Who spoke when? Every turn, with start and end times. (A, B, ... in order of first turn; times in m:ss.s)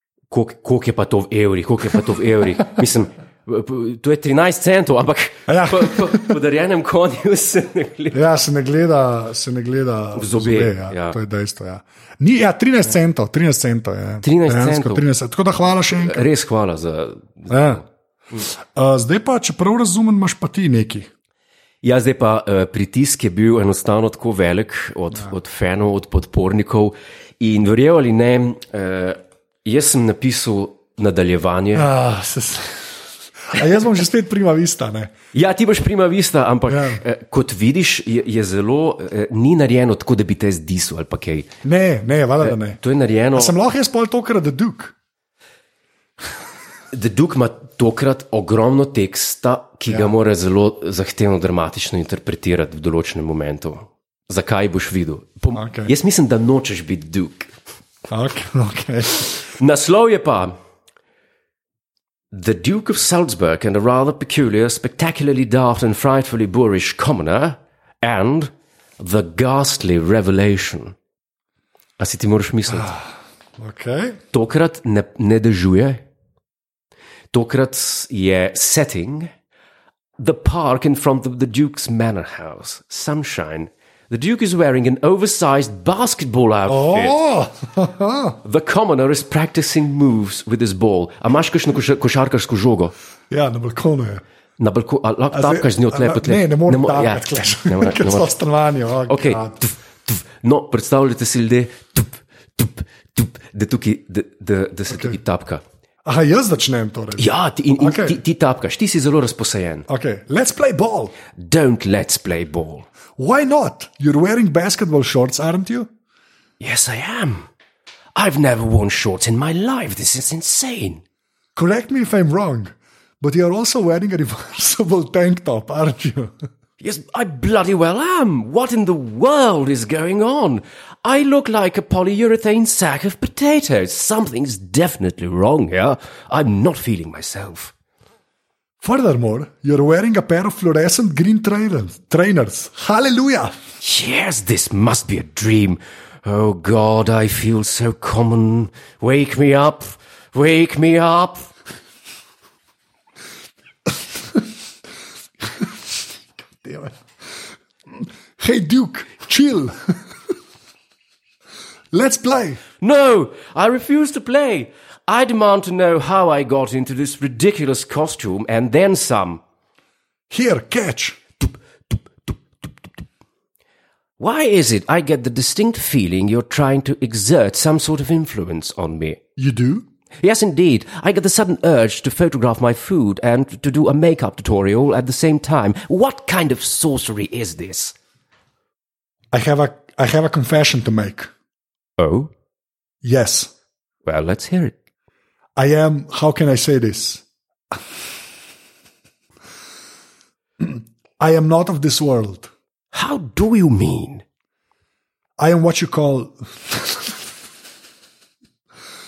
0:00.3-0:08.2 A
0:05.5-0:06.4 B
0:08.1-0:16.3 B
0:10.2-0:11.2 A
0:14.2-0:15.0 A
0:15.9-0:18.5 A
0:17.5-0:17.8 B
0:18.7-0:21.1 B
0:21.8-0:31.9 A
0:31.7-0:35.1 B
0:35.3-0:41.5 A
0:36.7-0:37.0 B
0:41.6-0:42.8 B
0:42.4-0:43.6 A
0:43.4-0:44.9 B
0:46.9-0:57.5 A
0:55.6-0:55.9 B
0:58.1-0:59.4 B
0:59.4-1:00.6 A
1:02.3-1:11.0 A
1:12.0-1:13.0 A
1:12.7-1:14.2 B
1:14.3-1:16.0 A
1:17.3-1:19.3 A
1:20.2-1:27.2 A
1:26.7-1:28.4 B
1:28.4-1:32.9 A
1:33.3-1:34.2 B
1:34.6-1:38.3 A
1:35.3-1:39.6 B
1:39.1-1:45.6 A
1:44.9-1:45.2 B
1:46.0-1:48.2 B
1:47.2-1:49.9 A
1:49.9-1:51.2 B
1:51.3-1:52.9 A
1:53.2-1:55.9 B
1:56.6-1:57.5 A
1:58.2-2:01.0 A
2:01.6-2:06.4 B
2:06.8-2:17.7 A
2:18.8-2:23.6 B
2:23.8-2:31.5 A
2:36.6-2:37.0 B
2:38.0-2:39.8 B
2:41.9-2:42.6 B
2:42.8-2:49.4 A
2:50.3-2:51.2 B
2:51.9-2:52.4 A
2:54.2-2:59.2 A
2:59.4-2:59.8 B
3:00.2-3:08.0 A
3:09.3-3:11.3 B
3:12.0-3:12.3 A
3:13.0-3:13.5 B
3:14.0-3:14.8 A
3:15.6-3:17.8 B
3:20.6-3:22.5 B
3:22.9-3:24.2 A
3:25.4-3:27.1 B